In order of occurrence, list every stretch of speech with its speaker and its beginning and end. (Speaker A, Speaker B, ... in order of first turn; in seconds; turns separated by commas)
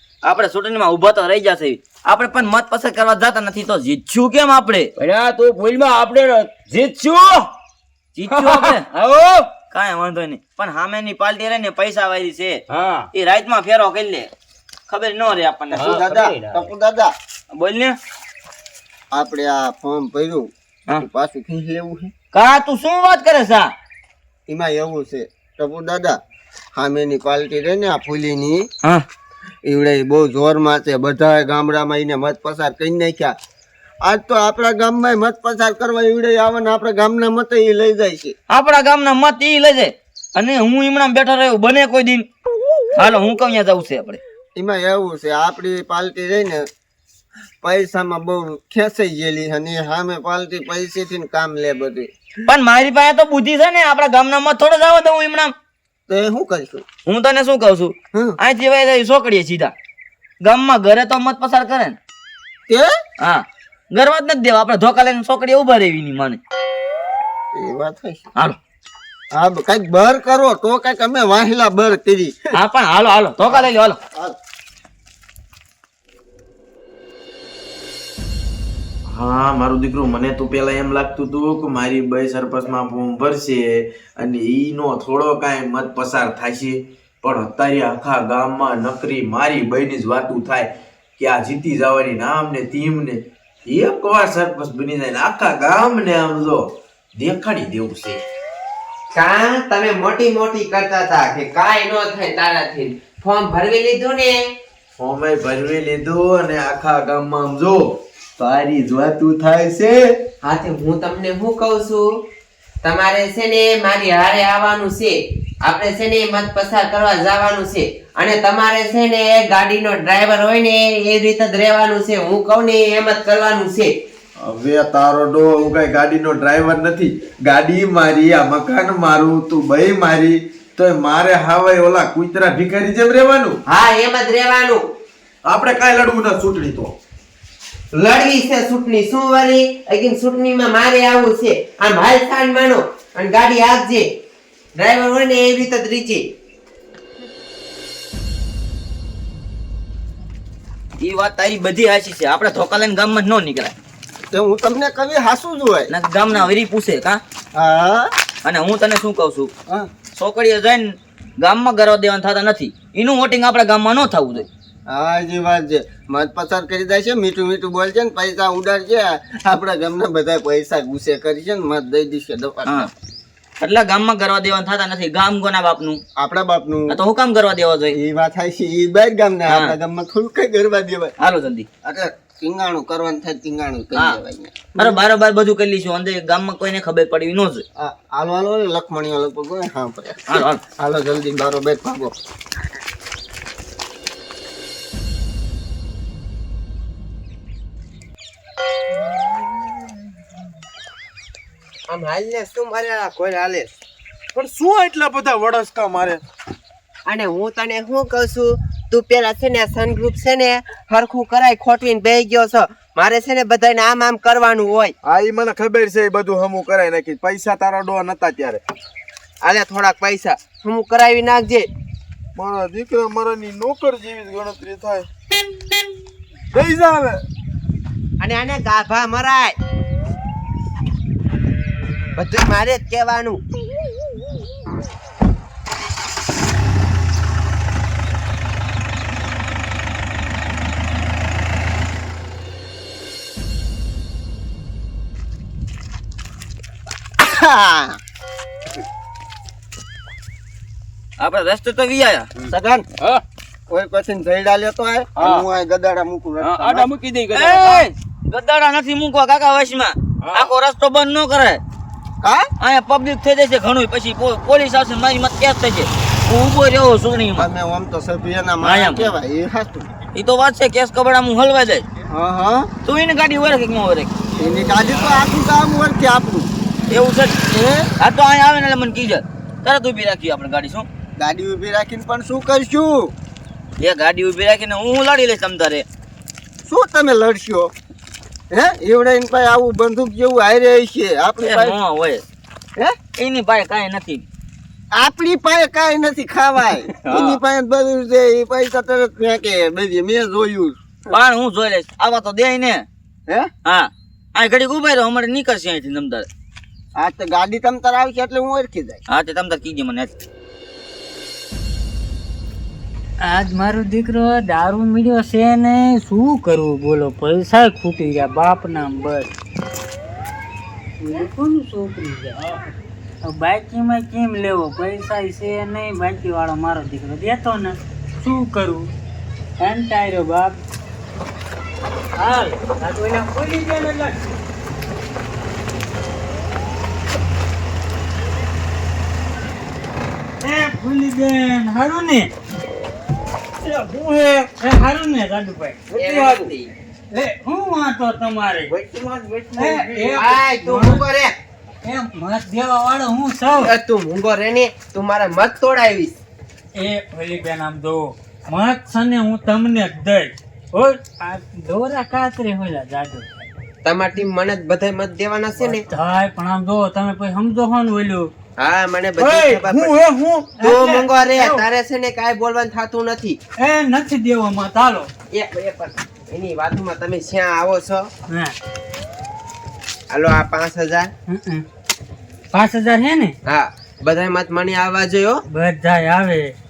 Speaker A: 0.2-4.9, Speaker B: 5.0-7.5, Speaker A: 8.1-8.9, Speaker B: 8.4-9.5, Speaker A: 9.7-12.6, Speaker B: 12.7-13.1, Speaker A: 13.1-14.3, Speaker A: 14.9-15.9, Speaker C: 15.7-17.1, Speaker B: 15.8-16.6, Speaker A: 17.5-17.9, Speaker C: 19.1-22.1, Speaker A: 22.3-23.7, Speaker C: 24.5-26.2, Speaker C: 26.8-28.7, Speaker C: 29.6-33.3, Speaker C: 34.0-38.4, Speaker A: 38.5-42.2, Speaker A: 43.0-44.2, Speaker C: 44.5-46.7, Speaker C: 47.6-52.1, Speaker A: 52.5-55.5, Speaker C: 56.1-56.8, Speaker A: 57.1-59.7, Speaker A: 60.4-62.0, Speaker A: 63.2-66.4, Speaker C: 67.5-68.2, Speaker C: 69.3-72.4, Speaker A: 72.5-74.0, Speaker C: 73.5-74.4, Speaker D: 79.1-98.2, Speaker E: 99.2-104.5, Speaker D: 105.0-107.8, Speaker D: 108.4-110.1, Speaker E: 110.4-112.1, Speaker E: 112.8-123.9, Speaker D: 124.4-133.6, Speaker E: 133.7-134.8, Speaker D: 135.5-136.9, Speaker E: 137.9-144.1, Speaker E: 144.8-146.2, Speaker A: 151.0-153.8, Speaker C: 154.3-156.5, Speaker A: 155.9-157.2, Speaker C: 157.5-158.1, Speaker A: 158.4-159.5, Speaker A: 160.2-164.5, Speaker C: 164.9-172.9, Speaker A: 173.6-176.0, Speaker C: 176.2-177.0, Speaker A: 176.9-178.0, Speaker C: 177.9-181.1, Speaker A: 179.5-179.8, Speaker A: 181.2-181.7, Speaker C: 181.8-185.0, Speaker A: 184.8-187.6, Speaker C: 187.8-192.2, Speaker A: 190.3-190.6, Speaker E: 201.9-203.7, Speaker D: 204.3-206.2, Speaker E: 207.1-214.9, Speaker D: 215.0-218.6, Speaker E: 219.4-221.7, Speaker D: 222.3-225.1, Speaker D: 226.5-227.2, Speaker E: 228.2-229.6, Speaker E: 232.2-233.4, Speaker C: 247.2-248.0, Speaker A: 251.2-252.3, Speaker C: 252.5-252.8, Speaker C: 253.7-256.9, Speaker B: 256.4-257.7, Speaker A: 257.3-261.6, Speaker C: 262.2-262.5, Speaker A: 262.6-267.5, Speaker C: 267.4-269.9, Speaker A: 268.6-269.1, Speaker A: 270.1-271.9, Speaker C: 272.1-272.7, Speaker A: 272.8-274.1, Speaker C: 274.3-276.5, Speaker A: 276.9-277.4, Speaker C: 277.5-277.9, Speaker A: 278.0-280.9, Speaker C: 281.2-283.1, Speaker A: 283.8-285.9, Speaker C: 286.6-287.7, Speaker C: 288.5-291.8, Speaker A: 291.4-292.2, Speaker A: 293.2-294.2, Speaker C: 294.9-300.8, Speaker A: 301.1-302.9, Speaker A: 303.6-306.3, Speaker C: 307.0-309.0, Speaker A: 309.1-310.1, Speaker F: 313.2-319.3, Speaker F: 321.0-322.5, Speaker F: 323.2-328.9, Speaker F: 329.6-330.6, Speaker F: 332.2-334.2, Speaker F: 340.4-342.3, Speaker D: 343.6-344.5, Speaker F: 344.6-345.8, Speaker D: 345.9-346.5, Speaker E: 345.9-346.7, Speaker F: 347.1-348.7, Speaker F: 349.6-351.0, Speaker E: 350.1-351.4, Speaker F: 351.8-353.7, Speaker E: 353.6-356.1, Speaker F: 356.7-363.3, Speaker E: 363.8-365.8, Speaker F: 365.6-368.3, Speaker E: 368.6-370.0, Speaker D: 369.2-370.5, Speaker F: 370.6-371.6, Speaker E: 370.6-373.4, Speaker F: 373.6-375.1, Speaker E: 375.3-378.1, Speaker E: 380.1-381.1, Speaker F: 381.3-381.6, Speaker F: 382.5-383.3, Speaker E: 383.4-385.4, Speaker F: 385.5-386.5